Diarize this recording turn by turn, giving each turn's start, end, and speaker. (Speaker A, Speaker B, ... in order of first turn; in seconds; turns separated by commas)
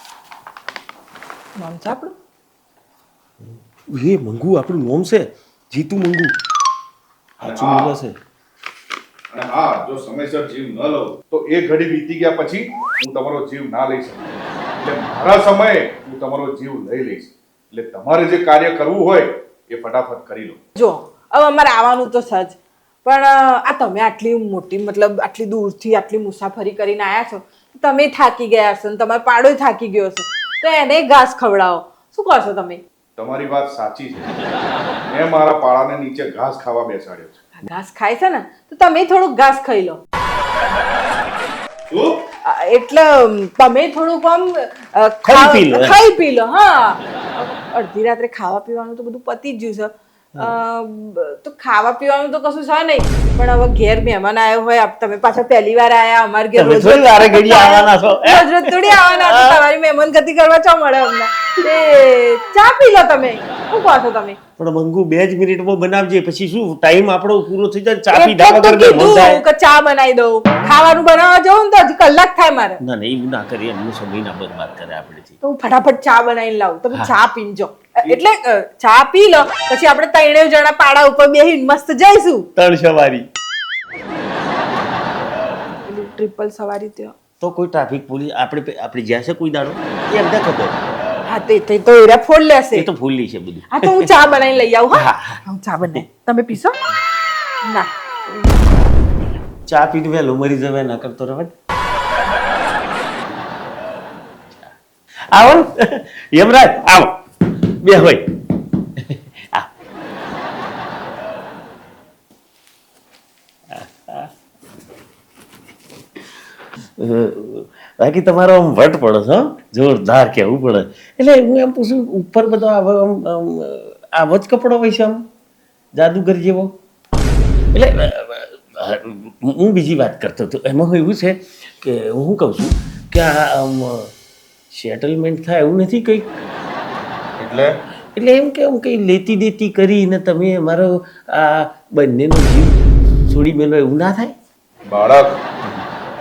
Speaker A: 1.6-2.2, Speaker B: 3.9-6.3, Speaker B: 7.4-8.2, Speaker C: 7.4-7.9, Speaker C: 9.3-20.6, Speaker A: 20.8-32.8, Speaker C: 33.2-34.4, Speaker C: 35.0-37.4, Speaker A: 37.6-40.0, Speaker C: 41.9-42.2, Speaker A: 42.4-64.4, Speaker B: 45.2-46.0, Speaker B: 56.5-59.6, Speaker B: 64.6-69.4, Speaker A: 68.1-72.8, Speaker B: 72.8-75.4, Speaker A: 75.4-82.5, Speaker B: 76.9-77.2, Speaker B: 82.6-83.3, Speaker A: 85.9-87.2, Speaker B: 87.4-90.8, Speaker A: 91.3-92.9, Speaker B: 92.7-94.1, Speaker A: 93.7-96.8, Speaker B: 94.9-95.4, Speaker A: 97.7-98.7, Speaker B: 99.7-101.5, Speaker B: 104.5-104.8, Speaker B: 105.3-108.4, Speaker B: 109.0-109.7, Speaker B: 113.7-114.3, Speaker B: 117.0-125.2, Speaker B: 126.0-126.8, Speaker B: 127.7-134.1, Speaker B: 134.7-136.4, Speaker C: 137.4-137.8, Speaker B: 138.2-144.3, Speaker C: 144.9-145.4